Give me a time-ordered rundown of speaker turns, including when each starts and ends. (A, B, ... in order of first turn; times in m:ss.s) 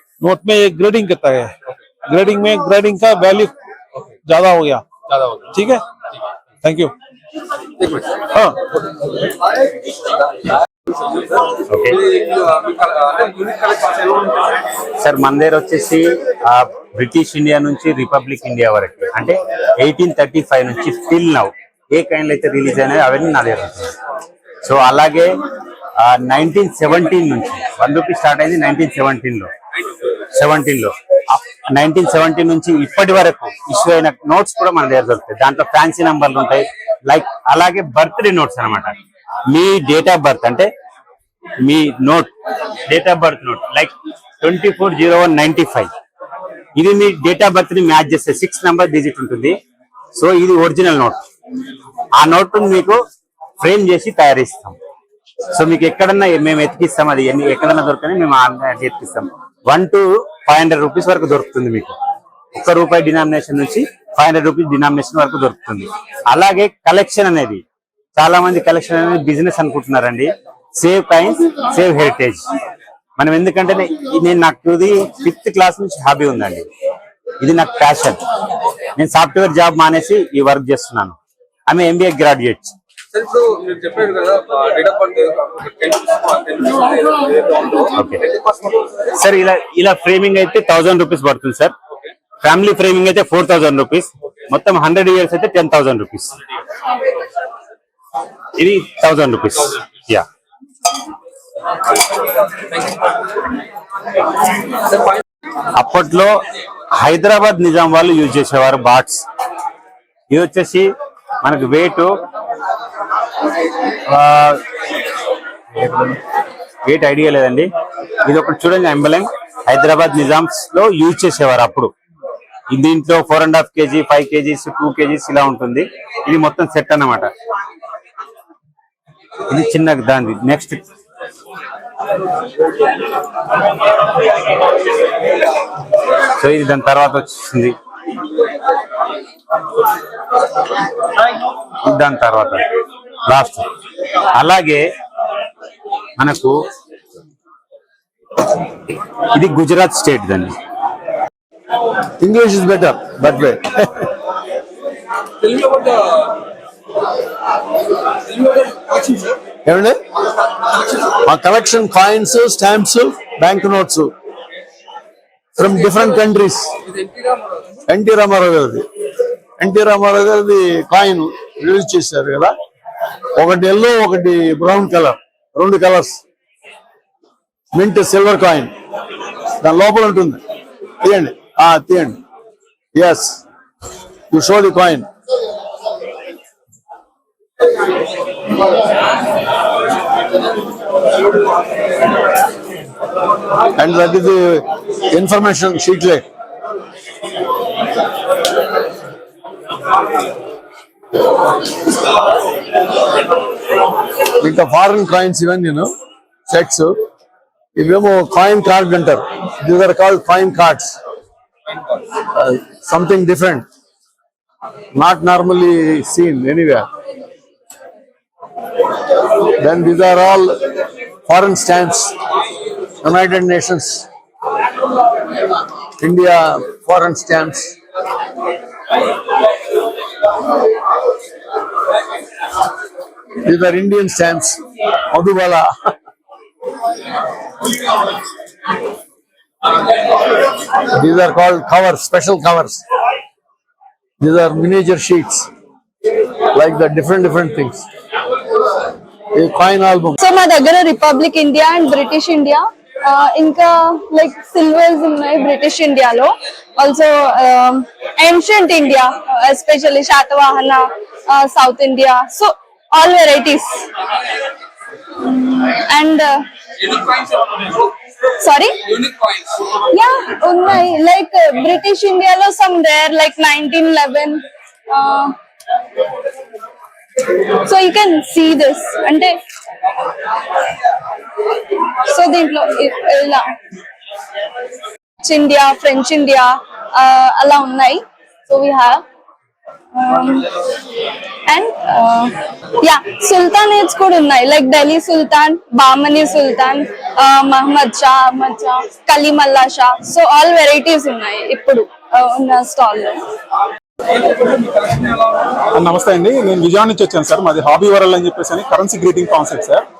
0:00.2-0:01.5 A
0:02.0-0:03.5 A
0:04.2-0:04.8 A
0:05.5-0:05.8 A
0:06.6-0:06.9 A
0:11.4-0:14.4 B
0:11.7-0:12.0 C
0:15.0-0:23.9 C
0:24.6-0:25.3 C
0:26.0-0:29.5 C
0:30.3-0:38.9 C
0:39.5-0:40.7 C
0:41.6-0:42.3 C
0:42.9-0:45.9 C
0:46.8-0:49.6 C
0:50.1-0:51.2 C
0:52.2-0:53.0 C
0:53.6-0:54.8 C
0:55.5-1:02.0 C
1:02.5-1:07.6 C
1:08.2-1:12.4 C
1:13.2-1:16.6 C
1:17.4-1:18.2 C
1:19.0-1:21.2 C
1:21.7-1:22.7 C
1:23.1-1:28.8 B
1:27.9-1:28.2 C
1:29.1-1:31.7 C
1:32.4-1:36.3 C
1:38.6-1:40.2 C
1:45.8-1:46.3 C
1:46.9-1:49.2 C
1:50.3-1:50.9 C
1:51.4-1:52.1 C
1:54.1-1:54.6 C
1:55.8-1:56.2 C
1:56.8-1:57.7 C
1:58.2-2:01.9 C
2:02.7-2:07.3 C
2:09.4-2:10.8 C
2:16.4-2:17.7 C
2:21.8-2:22.6 C
2:23.3-2:23.6 C
2:24.3-2:24.8 C
2:26.2-2:26.6 C
2:29.3-2:30.5 C
2:32.2-2:34.1 D
2:35.4-2:36.4 B
2:38.3-2:39.4 B
2:39.6-2:40.0 D
2:41.2-2:44.1 D
2:45.6-2:46.7 D
2:45.9-2:46.1 B
2:46.8-2:47.6 B
2:47.9-2:48.8 D
2:49.6-2:52.5 D
2:53.4-2:56.2 D
2:57.7-2:58.7 D
2:59.6-3:00.4 D
3:01.0-3:02.2 D
3:02.9-3:03.4 D
3:04.3-3:05.0 D
3:13.8-3:16.2 D
3:24.4-3:25.9 D
3:26.5-3:27.0 D
3:27.8-3:31.0 D
3:32.3-3:33.6 D
3:34.9-3:36.9 D
3:39.6-3:40.6 D
3:41.3-3:42.1 D
3:43.0-3:44.1 D
3:46.0-3:47.7 D
3:53.4-3:54.6 D
3:55.1-3:55.7 D
4:01.0-4:02.8 D
4:04.2-4:05.5 D
4:06.5-4:07.8 D
4:09.3-4:10.1 D
4:10.2-4:23.9 E
4:25.2-4:26.4 E
4:26.8-4:27.9 B
4:28.4-4:28.8 E
4:28.9-4:29.5 B
4:29.9-4:35.3 E
4:37.6-4:39.3 E
4:42.0-4:43.4 E
4:45.2-4:49.0 E
4:49.9-4:50.4 E
4:51.5-5:03.2 E
5:04.2-5:05.6 B
5:05.8-5:09.8 F